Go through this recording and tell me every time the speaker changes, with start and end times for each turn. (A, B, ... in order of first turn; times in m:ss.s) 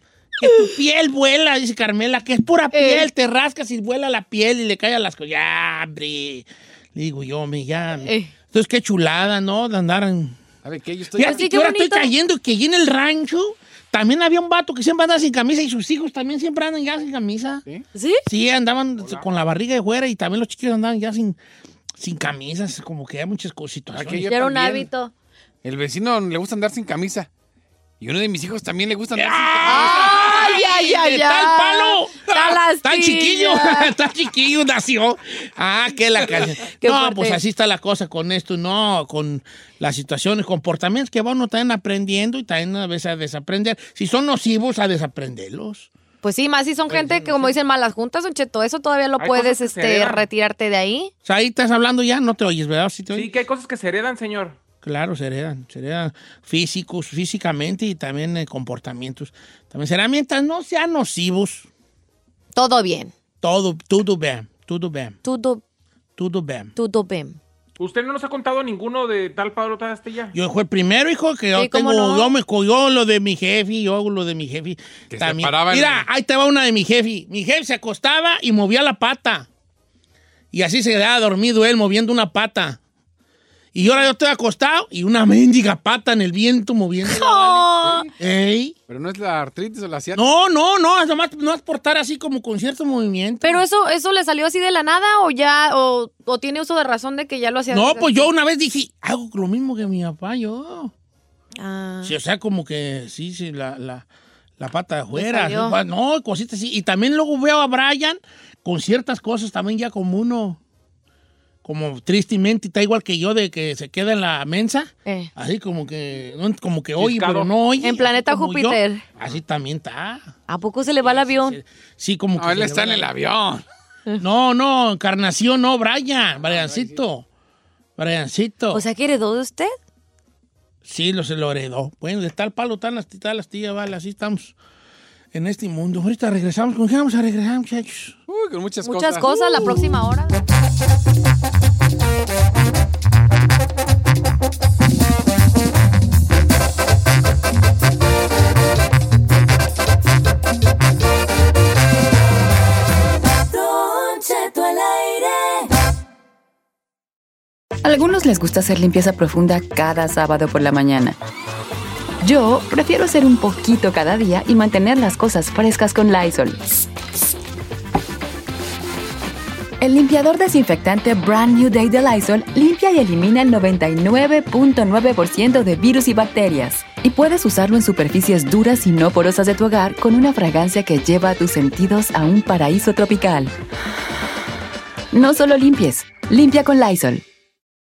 0:00.4-0:10.4 A
0:00.4-0:00.7 B
0:02.7-0:03.1 B
0:08.0-0:08.3 B
0:10.6-0:11.5 C
0:11.1-0:17.6 A
0:11.2-0:12.1 B
0:17.9-0:18.2 B
0:18.2-0:21.4 A
0:22.0-0:24.3 A
0:23.9-0:24.9 C
0:24.3-0:25.1 B
0:25.6-0:27.3 C
0:28.0-0:30.6 C
0:29.1-0:45.9 A
0:29.6-0:33.9 B
0:36.6-0:37.4 B
0:46.2-0:51.1 B
0:46.9-0:47.4 A
0:46.9-0:47.4 C
0:49.2-0:50.2 D
0:51.2-0:53.3 A
0:53.1-0:54.6 D
0:54.8-1:01.7 A
1:02.5-1:03.1 B
1:03.4-1:05.2 A
1:05.2-1:05.6 B
1:06.2-1:06.7 A
1:06.8-1:07.4 B
1:07.8-1:10.3 D
1:10.3-1:19.5 A
1:11.6-1:12.4 B
1:15.1-1:16.0 C
1:20.5-1:22.8 A
1:23.7-1:27.7 A
1:27.0-1:28.1 B
1:27.8-1:28.1 C
1:28.2-1:28.7 A
1:28.9-1:30.2 C
1:30.1-1:33.6 A
1:33.4-1:38.3 B
1:37.7-1:40.9 A
1:41.6-1:42.2 B
1:42.0-1:44.0 A
1:44.6-1:50.6 A
1:45.1-1:45.8 B
1:51.6-2:00.3 A
1:55.0-1:55.3 B
1:57.0-1:57.4 D
1:57.8-1:59.0 B
2:00.5-2:01.6 B
2:01.0-2:03.1 A
2:02.4-2:03.6 C
2:04.2-2:07.2 A
2:06.4-2:07.0 C
2:08.0-2:08.8 A
2:08.7-2:09.7 B
2:10.8-2:14.5 A
2:15.3-2:18.2 A
2:18.3-2:19.9 C
2:18.8-2:20.4 B
2:33.5-2:35.7 E
2:37.8-2:41.2 F
2:42.2-2:46.6 F
2:49.8-3:03.5 F
3:05.1-3:07.2 F